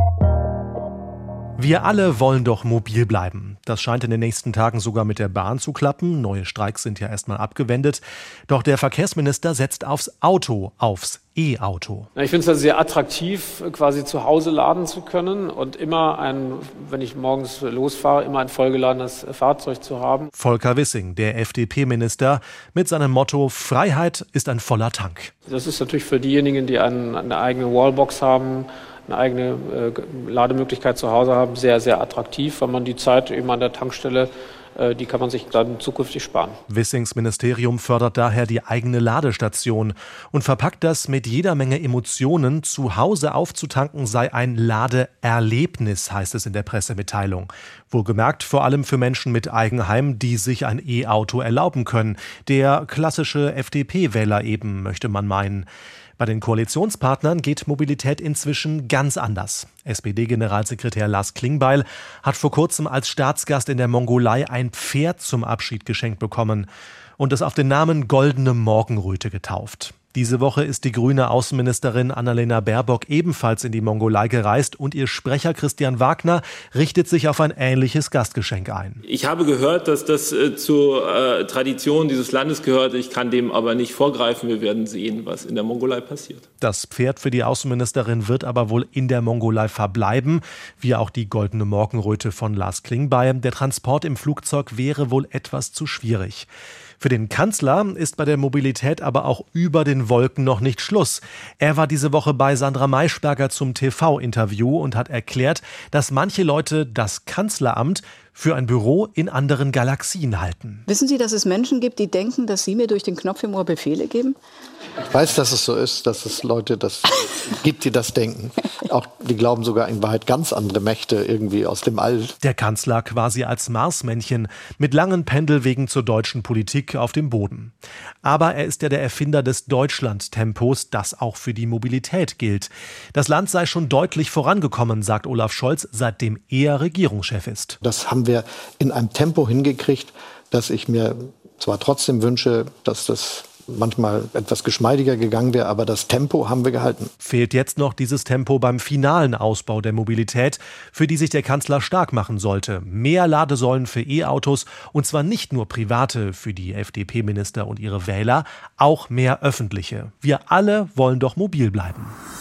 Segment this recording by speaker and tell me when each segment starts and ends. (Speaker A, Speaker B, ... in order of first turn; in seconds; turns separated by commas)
Speaker A: 1.6-12.1, Speaker B: 12.2-20.3, Speaker A: 20.4-25.3, Speaker B: 25.5-36.6, Speaker A: 36.7-79.0, Speaker C: 79.0-86.4, Speaker A: 86.6-96.5, Speaker A: 97.0-110.9, Speaker D: 110.9-114.4, Speaker E: 115.1-122.3, Speaker A: 122.4-137.8, Speaker E: 137.8-147.1, Speaker A: 147.2-162.2